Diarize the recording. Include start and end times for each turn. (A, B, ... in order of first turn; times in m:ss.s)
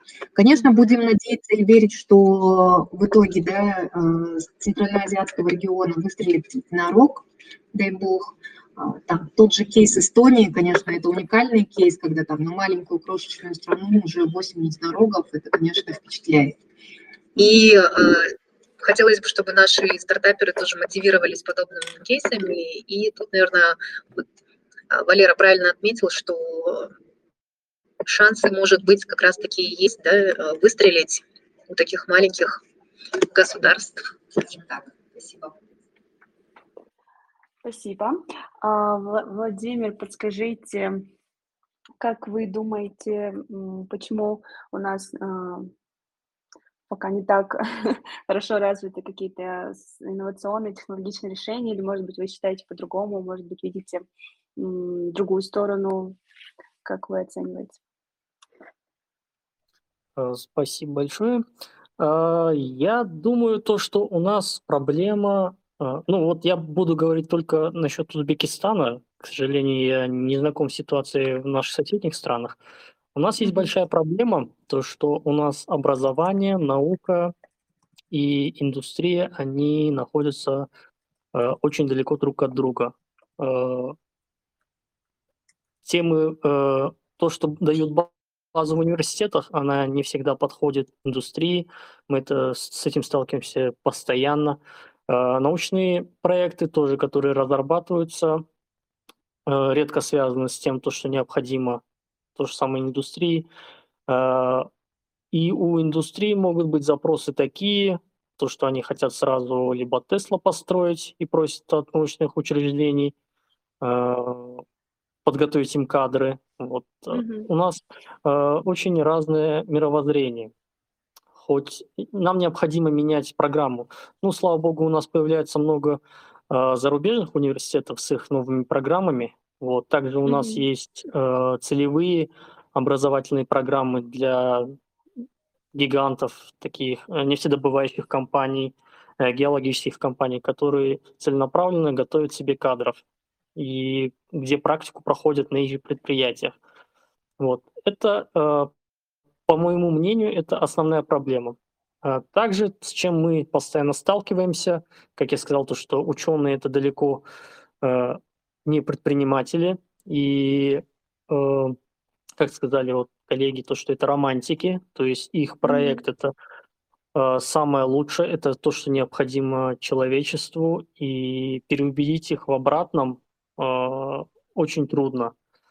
0:00.4-0:16.6 A
0:17.4-0:24.2 A
0:17.4-0:17.7 B
0:24.9-0:26.9 A
0:28.0-0:32.6 A
0:33.2-0:35.6 A
0:37.6-0:41.0 B
0:42.0-0:45.7 B
0:46.9-0:54.1 B
0:54.6-0:56.2 B
0:56.8-0:57.8 B
1:00.2-1:01.4 C
1:02.0-1:12.6 C
1:13.2-1:17.3 C
1:13.4-1:13.7 B
1:18.1-1:20.7 C
1:21.3-1:24.0 C
1:25.8-1:38.4 C
1:39.5-1:41.8 C
1:42.4-1:43.5 C
1:44.1-1:44.7 C
1:45.3-1:53.2 C
1:53.8-1:54.6 C
1:55.2-2:00.5 C
1:57.1-1:57.5 B
2:01.4-2:14.8 C
2:10.3-2:10.6 B
2:15.7-2:23.0 C
2:23.6-2:26.6 C
2:27.4-2:28.7 C
2:29.5-2:37.2 C
2:37.8-2:41.8 C
2:42.4-2:46.3 C
2:45.6-2:46.0 B
2:47.2-2:55.4 C